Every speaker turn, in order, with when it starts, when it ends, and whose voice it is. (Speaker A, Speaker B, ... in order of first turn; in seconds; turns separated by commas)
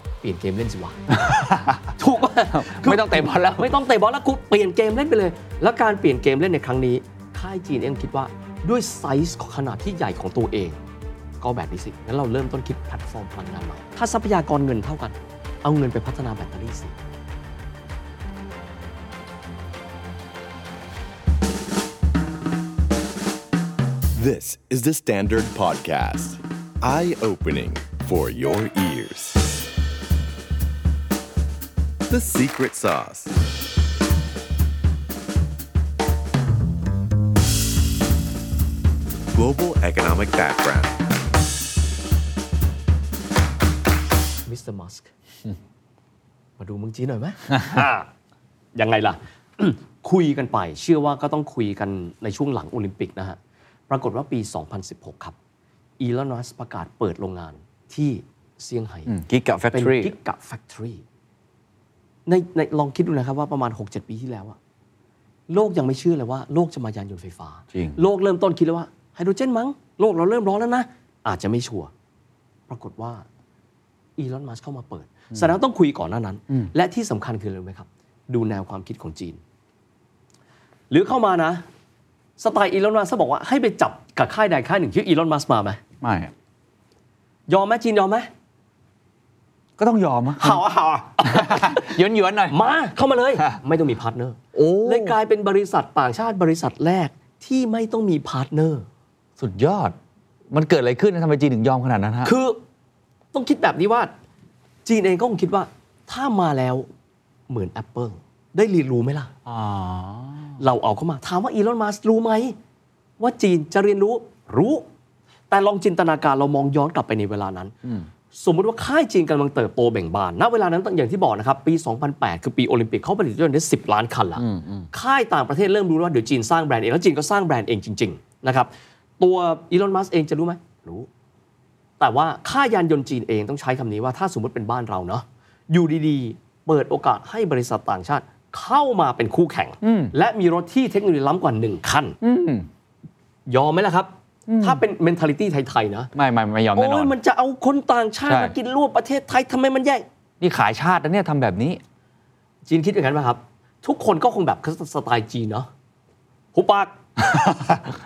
Speaker A: 0.2-1.0, Speaker B: 1.1-1.9, Speaker A: 1.9-10.8, Speaker B: 2.5-3.7, Speaker A: 11.4-16.9, Speaker C: 24.1-29.7, Speaker C: 32.1-33.3, Speaker C: 39.3-41.0, Speaker A: 44.5-45.1, Speaker A: 46.6-48.1, Speaker A: 48.8-53.4, Speaker A: 53.9-55.3, Speaker A: 56.0-59.1, Speaker B: 59.1-60.1, Speaker A: 59.7-61.0, Speaker A: 62.2-64.6, Speaker A: 65.5-71.9, Speaker B: 67.7-68.0, Speaker A: 72.7-73.2, Speaker A: 74.2-79.4, Speaker A: 80.9-81.6, Speaker A: 82.4-85.8, Speaker B: 86.0-86.3, Speaker A: 87.5-88.3, Speaker B: 89.8-90.6, Speaker A: 90.4-91.9, Speaker B: 91.2-92.6, Speaker A: 92.5-98.8, Speaker B: 94.5-95.2, Speaker B: 99.4-100.0, Speaker B: 100.5-102.3, Speaker A: 102.2-102.6, Speaker A: 103.3-104.1, Speaker A: 104.8-106.9, Speaker A: 107.5-109.3, Speaker B: 109.5-110.5, Speaker A: 110.6-112.5, Speaker A: 113.2-114.8, Speaker A: 115.5-117.7, Speaker A: 118.3-131.1, Speaker B: 124.3-124.9, Speaker A: 132.0-142.2, Speaker B: 139.8-140.1, Speaker B: 142.2-142.7, Speaker A: 143.5-146.1, Speaker B: 144.5-144.8, Speaker B: 146.1-147.1, Speaker A: 146.7-150.0, Speaker B: 148.3-148.5, Speaker B: 150.4-151.8, Speaker A: 152.7-155.7, Speaker A: 156.5-157.0, Speaker B: 157.2-157.8